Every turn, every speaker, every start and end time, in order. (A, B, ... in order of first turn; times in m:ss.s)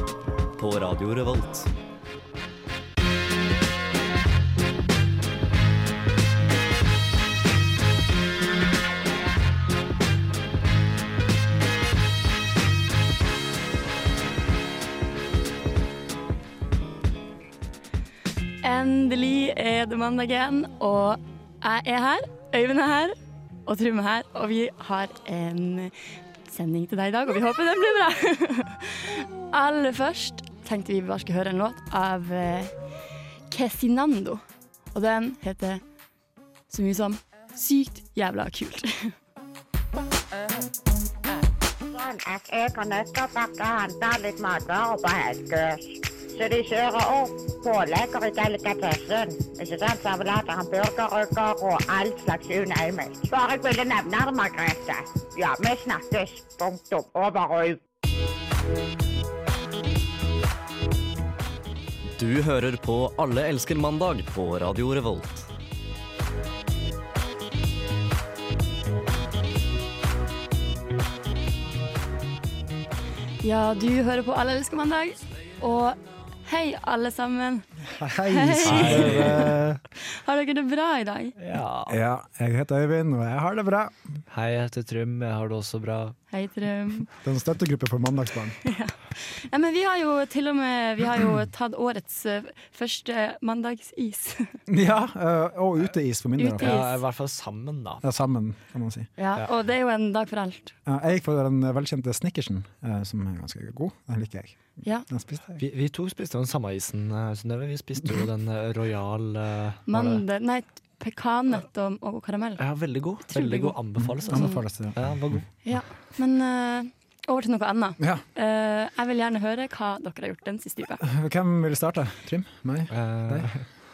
0:00.6-0:01.7 A
0:18.6-0:25.9 B
0:26.5-0:32.7 B
0:33.5-0:34.4 B
0:34.9-0:35.8 B
0:36.7-0:39.1 B
0:41.9-0:57.8 C
1:02.2-1:05.4 A
1:13.4-1:17.6 B
1:17.9-1:19.7 D
1:18.3-1:19.4 B
1:18.6-1:19.8 E
1:20.0-1:21.3 B
1:21.4-1:22.0 E
1:21.9-1:24.0 D
1:24.3-1:26.2 E
1:26.3-1:27.1 B
1:27.2-1:28.6 D
1:28.6-1:34.6 B
1:34.7-1:36.8 D
1:36.4-1:37.0 B
1:36.6-1:38.0 E
1:38.0-1:39.1 D
1:39.2-1:40.8 B
1:40.8-1:45.6 D
1:45.6-1:50.2 E
1:49.9-1:52.6 B
1:52.6-1:55.5 E
1:53.2-1:54.6 B
1:54.0-1:55.4 D
1:55.6-2:01.0 B
2:01.0-2:03.5 D
2:02.9-2:03.6 E